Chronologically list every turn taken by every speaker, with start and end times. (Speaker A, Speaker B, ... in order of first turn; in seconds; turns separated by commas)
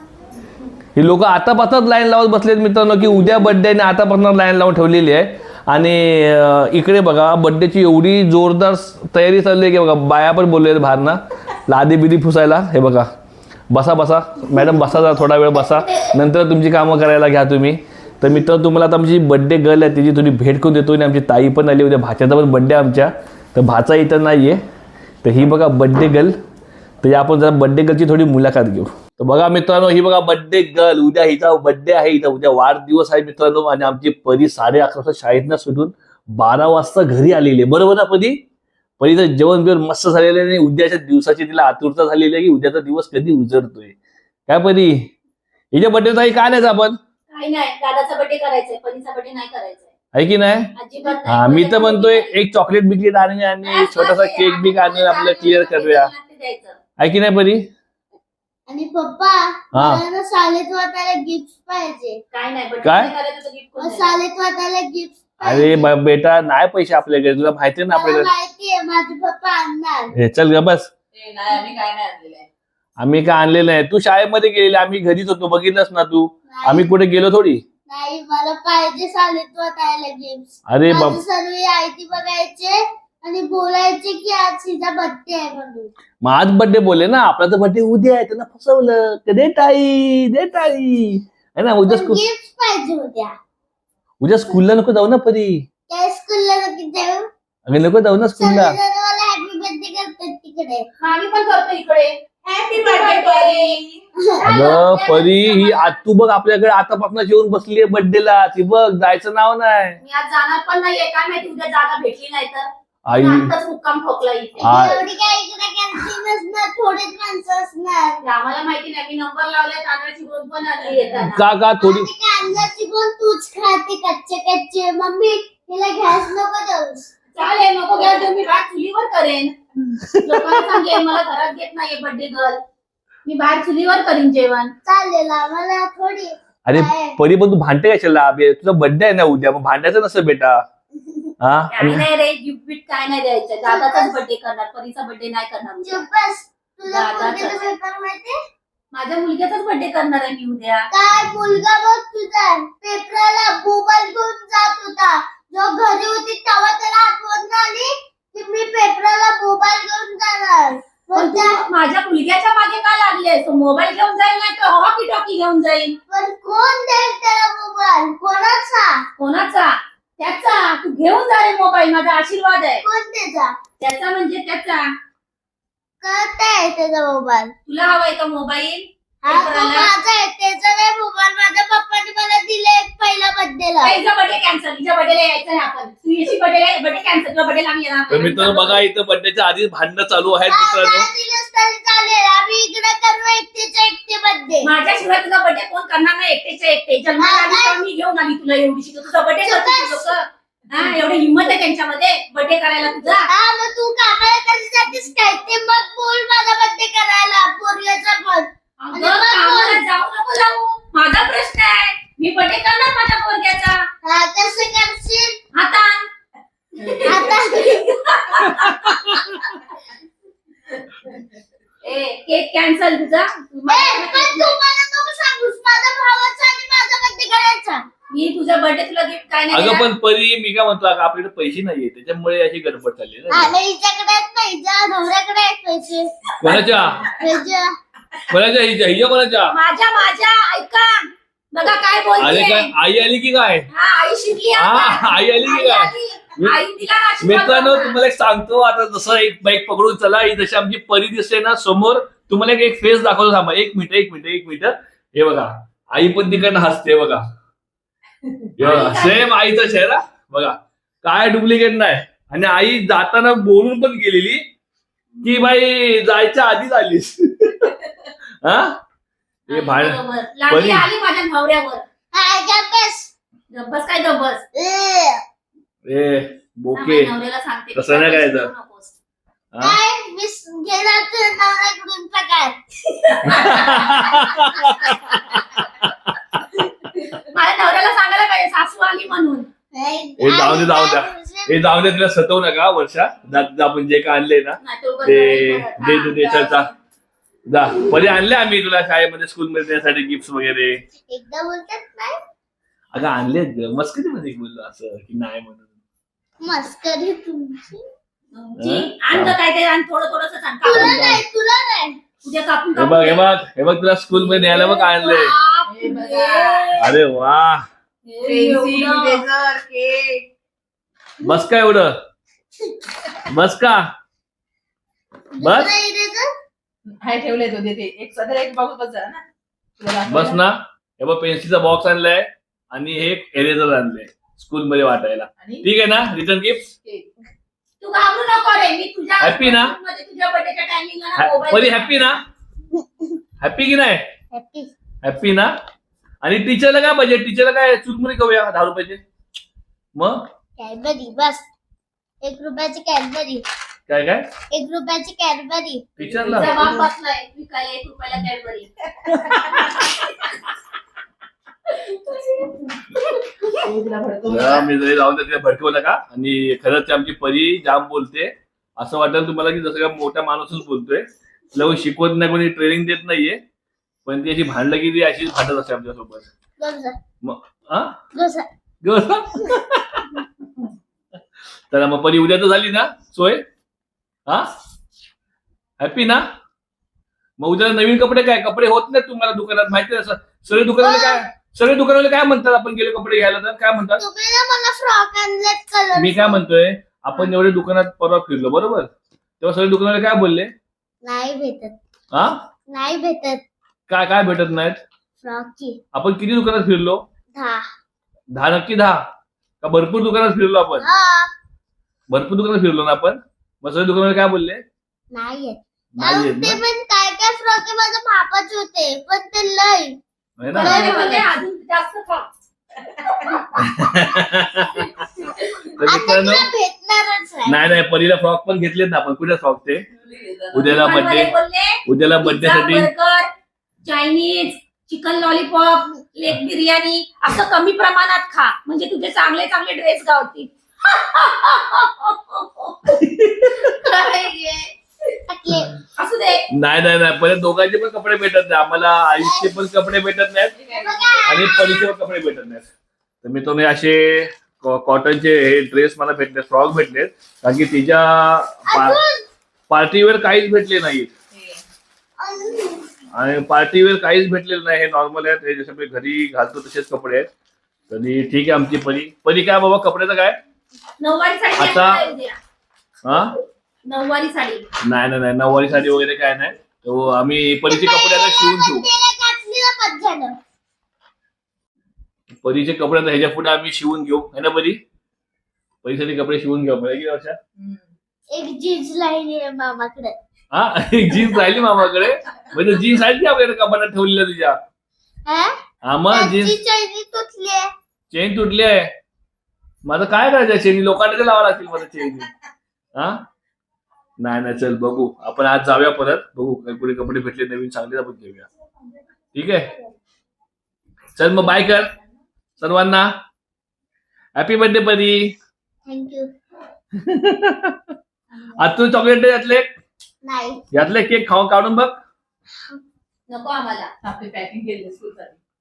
Speaker A: 1.0-13.1, Speaker A: 13.7-24.6, Speaker A: 25.2-26.4, Speaker A: 27.0-38.4, Speaker A: 39.0-44.0, Speaker A: 44.5-45.1, Speaker A: 45.7-47.0, Speaker B: 47.3-49.9, Speaker A: 50.1-50.7, Speaker B: 50.8-52.3, Speaker A: 51.3-56.1, Speaker B: 53.6-56.8, Speaker A: 57.0-57.7, Speaker C: 58.7-62.2, Speaker A: 59.7-60.0, Speaker B: 62.3-64.2, Speaker A: 62.8-63.1, Speaker C: 63.8-65.9, Speaker A: 65.4-68.3, Speaker C: 67.9-70.1, Speaker A: 70.1-70.9, Speaker B: 71.2-72.5, Speaker A: 73.0-77.6, Speaker C: 76.5-76.9, Speaker C: 77.9-85.9, Speaker A: 80.7-81.2, Speaker A: 86.2-92.2, Speaker C: 91.9-93.3, Speaker A: 94.2-95.7, Speaker C: 95.9-97.2, Speaker A: 97.7-98.8, Speaker C: 98.4-100.9, Speaker B: 101.0-105.8, Speaker C: 102.7-103.3, Speaker C: 104.3-104.6, Speaker A: 104.4-110.0, Speaker B: 110.0-114.9, Speaker A: 113.1-113.5, Speaker C: 114.6-118.2, Speaker A: 114.6-115.0, Speaker B: 118.2-121.4, Speaker A: 121.3-122.1, Speaker C: 121.8-127.1, Speaker B: 127.3-129.5, Speaker A: 130.0-130.6, Speaker B: 130.2-132.6, Speaker B: 133.2-134.7, Speaker C: 134.8-137.2, Speaker A: 136.7-140.6, Speaker A: 141.4-142.1, Speaker B: 141.7-146.1, Speaker C: 143.6-144.2, Speaker C: 145.8-148.3, Speaker B: 146.9-147.7, Speaker B: 148.9-150.9, Speaker C: 150.9-161.6, Speaker B: 161.2-166.0, Speaker C: 166.1-169.1, Speaker B: 169.2-172.8, Speaker C: 172.8-173.5, Speaker B: 173.8-174.9, Speaker C: 176.0-177.5, Speaker B: 177.7-179.9, Speaker C: 179.2-184.0, Speaker B: 183.8-188.8, Speaker A: 188.1-191.1, Speaker C: 190.5-194.7, Speaker B: 194.6-203.3, Speaker C: 197.2-197.8, Speaker C: 199.4-200.1, Speaker C: 203.3-209.8, Speaker B: 208.8-213.8, Speaker C: 214.0-215.4, Speaker B: 215.5-216.1, Speaker B: 216.8-219.5, Speaker C: 217.0-217.8, Speaker A: 218.6-219.3, Speaker B: 221.8-224.6, Speaker C: 223.7-227.8, Speaker B: 228.1-229.9, Speaker A: 229.5-233.5, Speaker C: 233.3-237.7, Speaker A: 236.4-237.1, Speaker A: 238.3-239.6, Speaker B: 239.5-242.7, Speaker A: 242.2-243.7, Speaker B: 243.7-248.0, Speaker A: 244.6-246.6, Speaker A: 247.2-257.2, Speaker A: 258.6-264.4, Speaker B: 258.6-259.3, Speaker A: 265.2-267.7, Speaker A: 268.4-268.8, Speaker B: 269.5-271.8, Speaker A: 269.5-270.9, Speaker C: 272.1-273.1, Speaker B: 273.5-274.4, Speaker C: 274.5-275.2, Speaker A: 275.9-277.1, Speaker B: 276.8-278.9, Speaker A: 277.8-278.5, Speaker A: 279.5-279.8, Speaker C: 279.6-282.6, Speaker B: 283.1-285.0, Speaker A: 283.2-285.4, Speaker B: 287.0-289.5, Speaker C: 289.7-291.7, Speaker A: 290.2-296.7, Speaker B: 294.6-296.5, Speaker A: 297.5-300.8, Speaker C: 301.1-302.1, Speaker A: 302.9-305.7, Speaker C: 306.4-307.8, Speaker B: 308.3-311.0, Speaker A: 308.6-309.4, Speaker C: 310.6-312.0, Speaker A: 310.7-311.2, Speaker B: 312.2-313.2, Speaker A: 312.8-315.3, Speaker B: 314.1-316.9, Speaker D: 315.7-316.8, Speaker A: 316.8-317.6, Speaker B: 318.1-319.3, Speaker D: 318.2-320.2, Speaker A: 321.2-321.9, Speaker A: 323.2-323.9, Speaker C: 325.4-326.3, Speaker A: 325.4-325.7, Speaker D: 326.9-329.2, Speaker D: 329.8-330.4, Speaker A: 330.1-336.7, Speaker D: 335.4-335.6, Speaker B: 337.8-342.2, Speaker A: 339.2-339.7, Speaker A: 341.2-342.2, Speaker A: 343.4-344.0, Speaker C: 344.3-344.7, Speaker A: 345.0-345.5, Speaker A: 346.2-349.0, Speaker A: 350.0-350.2, Speaker C: 350.6-351.4, Speaker C: 352.2-353.4, Speaker A: 353.9-354.3, Speaker C: 354.5-355.9, Speaker A: 356.0-356.6, Speaker D: 356.0-356.9, Speaker B: 356.3-360.1, Speaker B: 361.7-363.0, Speaker D: 363.4-364.7, Speaker A: 364.3-373.4, Speaker A: 374.1-376.3, Speaker C: 376.6-377.0, Speaker A: 377.2-378.0, Speaker C: 378.1-378.5, Speaker A: 378.8-380.2, Speaker A: 381.7-383.4, Speaker A: 385.8-386.3, Speaker A: 387.4-394.0, Speaker C: 390.8-391.3, Speaker C: 394.0-396.4, Speaker A: 395.9-398.9, Speaker A: 399.4-400.5, Speaker C: 401.0-401.8, Speaker A: 402.1-402.4, Speaker C: 402.7-403.4, Speaker A: 403.9-404.8, Speaker C: 405.2-405.8, Speaker A: 405.9-407.0, Speaker C: 407.3-407.6, Speaker A: 408.3-409.0, Speaker A: 409.6-410.9, Speaker C: 410.8-411.3, Speaker A: 412.1-414.6, Speaker C: 415.1-420.0, Speaker A: 416.0-416.6, Speaker A: 420.4-420.9, Speaker B: 420.5-422.3, Speaker C: 420.6-421.2, Speaker B: 423.0-423.5, Speaker A: 423.6-424.9, Speaker A: 425.8-426.5, Speaker C: 425.9-427.6, Speaker A: 427.5-429.9, Speaker D: 430.0-430.7, Speaker A: 430.5-431.3, Speaker B: 430.6-433.3, Speaker A: 431.9-432.9, Speaker B: 433.8-444.7, Speaker A: 442.9-443.7, Speaker C: 445.3-445.7, Speaker B: 446.0-446.5, Speaker A: 446.5-450.6, Speaker C: 449.2-449.5, Speaker D: 450.6-451.2, Speaker C: 450.7-451.9, Speaker A: 451.2-452.7, Speaker A: 453.2-459.0, Speaker C: 458.7-459.2, Speaker A: 459.7-461.1, Speaker D: 461.3-461.6, Speaker C: 462.2-462.9, Speaker A: 463.1-467.3, Speaker A: 467.9-470.4, Speaker B: 471.0-472.4, Speaker A: 471.6-472.0, Speaker A: 473.1-473.4, Speaker B: 473.9-474.6, Speaker A: 474.8-478.9, Speaker C: 477.7-480.4, Speaker A: 482.4-484.8, Speaker A: 485.8-487.4, Speaker C: 488.3-490.1, Speaker A: 490.5-494.6, Speaker C: 495.3-495.5, Speaker A: 495.8-496.6, Speaker C: 496.1-497.7, Speaker A: 498.1-498.9, Speaker A: 499.9-502.3, Speaker A: 502.9-503.2, Speaker A: 504.2-508.5, Speaker A: 509.3-509.7, Speaker A: 511.1-511.9, Speaker A: 512.6-513.1, Speaker A: 514.4-515.3, Speaker C: 515.9-516.3, Speaker A: 517.0-517.9, Speaker A: 518.6-519.7, Speaker C: 520.2-520.6, Speaker A: 520.7-522.0, Speaker B: 523.3-523.9, Speaker D: 524.0-525.4